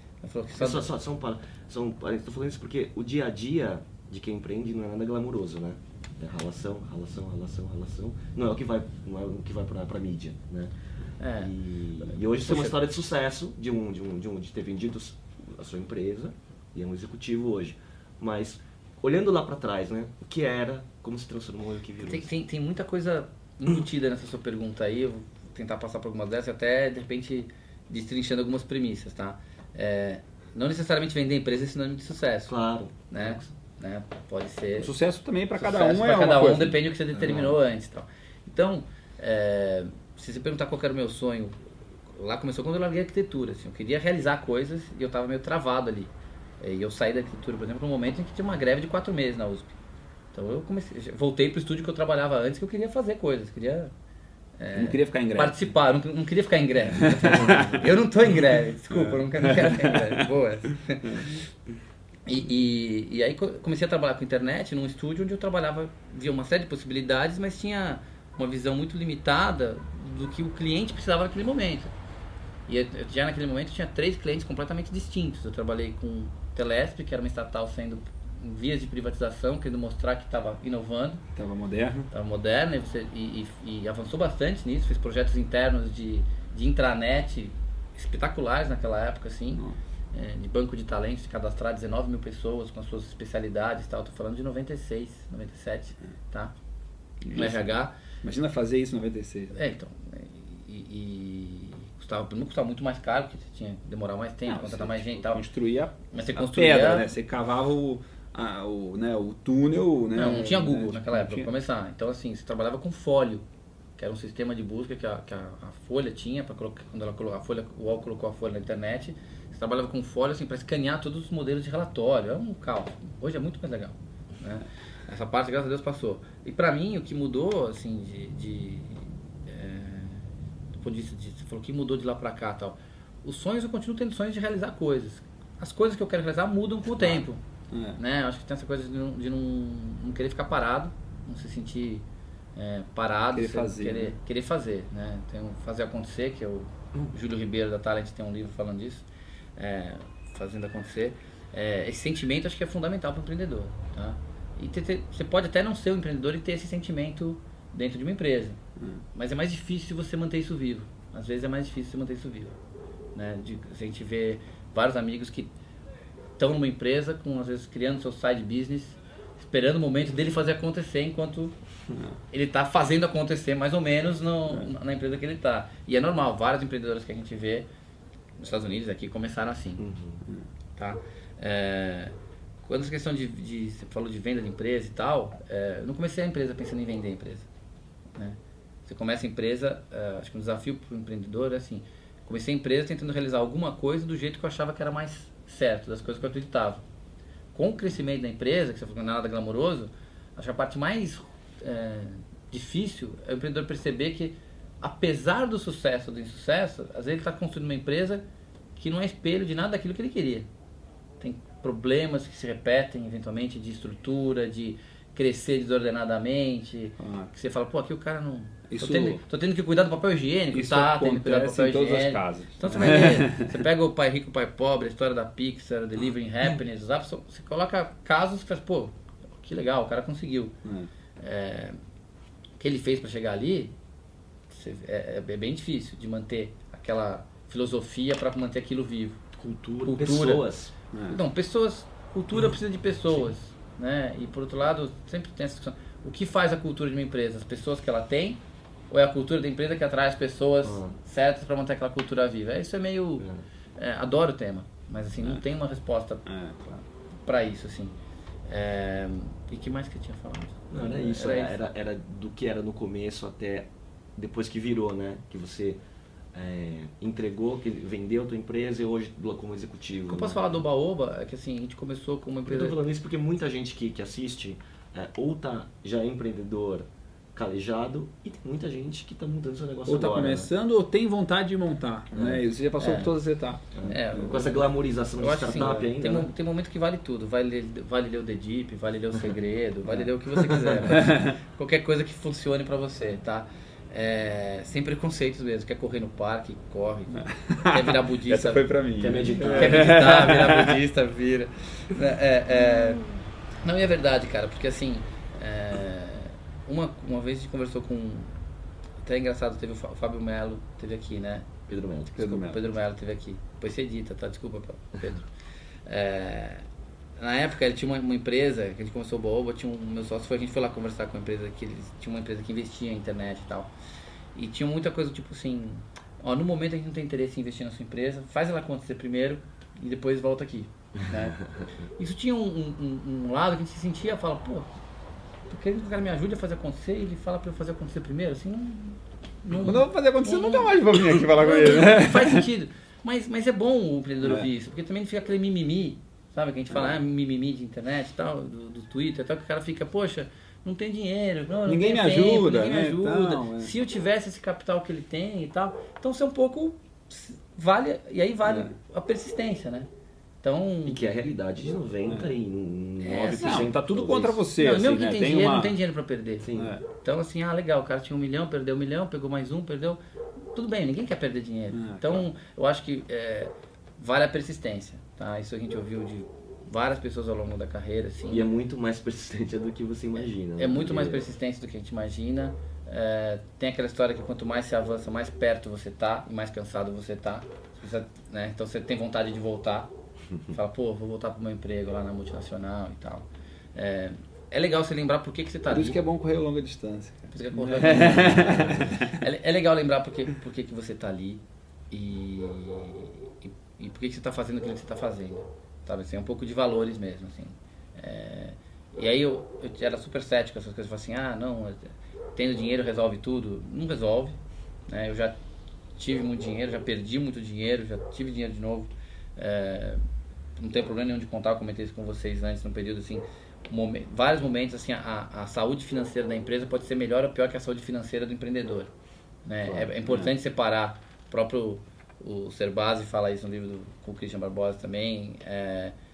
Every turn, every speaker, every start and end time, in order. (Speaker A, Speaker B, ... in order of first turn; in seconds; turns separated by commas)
Speaker A: 0.2-0.9, Speaker B: 0.6-10.7, Speaker A: 11.2-12.8, Speaker B: 11.4-22.3, Speaker A: 22.0-32.5, Speaker B: 32.5-33.5, Speaker A: 33.1-34.9, Speaker C: 34.8-37.6, Speaker A: 35.6-49.8, Speaker A: 50.3-53.9, Speaker A: 54.6-61.4, Speaker C: 54.7-55.7, Speaker C: 57.0-57.9, Speaker C: 58.9-60.3, Speaker C: 61.0-61.3, Speaker A: 62.3-71.9, Speaker A: 72.7-81.2, Speaker C: 81.4-82.1, Speaker A: 82.1-96.5, Speaker C: 97.2-99.6, Speaker A: 97.3-97.9, Speaker A: 99.5-105.4, Speaker C: 104.5-111.5, Speaker A: 106.1-107.1, Speaker A: 110.2-113.5, Speaker A: 114.0-137.4, Speaker C: 137.7-138.0, Speaker A: 138.0-142.1, Speaker A: 142.6-149.1, Speaker C: 143.3-144.2, Speaker A: 149.6-158.6, Speaker A: 159.1-162.6, Speaker A: 163.2-165.5, Speaker A: 166.4-171.6, Speaker A: 172.3-177.7, Speaker A: 178.4-179.8, Speaker B: 179.8-180.2, Speaker A: 180.8-182.1, Speaker A: 182.7-187.5, Speaker A: 188.2-196.8, Speaker A: 197.5-208.2, Speaker A: 208.8-210.5, Speaker A: 211.2-230.5, Speaker C: 217.0-217.3, Speaker C: 218.7-219.2, Speaker C: 220.5-223.6, Speaker C: 230.6-230.9, Speaker A: 231.2-231.8, Speaker A: 232.6-233.7, Speaker A: 234.5-239.2, Speaker B: 239.4-240.7, Speaker A: 239.8-240.5, Speaker C: 240.9-241.2, Speaker A: 241.1-253.3, Speaker B: 250.6-250.9, Speaker A: 253.8-256.2, Speaker C: 256.3-256.9, Speaker A: 257.2-257.9, Speaker A: 258.5-261.6, Speaker B: 260.7-265.8, Speaker B: 266.3-270.6, Speaker A: 270.1-272.8, Speaker B: 272.5-280.5, Speaker C: 279.9-284.3, Speaker B: 282.1-282.4, Speaker A: 282.8-283.1, Speaker B: 283.8-286.3, Speaker A: 283.9-284.6, Speaker A: 285.2-298.6, Speaker B: 290.3-290.8, Speaker C: 290.9-291.4, Speaker C: 297.1-300.8, Speaker B: 299.0-300.1, Speaker A: 299.5-303.1, Speaker A: 303.6-308.4, Speaker A: 309.0-311.5, Speaker B: 311.7-312.2, Speaker C: 312.2-312.6, Speaker A: 312.2-315.3, Speaker A: 315.9-316.6, Speaker A: 317.2-323.7, Speaker A: 324.4-331.4, Speaker A: 332.0-334.7, Speaker A: 335.5-359.9, Speaker C: 339.6-342.5, Speaker C: 344.2-344.5, Speaker C: 346.7-347.0, Speaker C: 351.7-353.7, Speaker C: 358.4-358.8, Speaker A: 360.4-361.2, Speaker B: 360.9-364.4, Speaker A: 363.0-363.7, Speaker C: 363.2-365.8, Speaker A: 364.6-370.0, Speaker B: 366.4-366.8, Speaker C: 366.6-366.8, Speaker A: 370.6-378.5, Speaker C: 371.7-372.3, Speaker B: 378.3-381.3, Speaker A: 380.6-389.9, Speaker A: 390.5-396.0, Speaker C: 395.7-399.2, Speaker A: 397.3-414.4, Speaker A: 414.9-415.4, Speaker A: 416.0-420.0, Speaker A: 420.6-428.9, Speaker A: 429.5-435.9, Speaker B: 429.6-429.9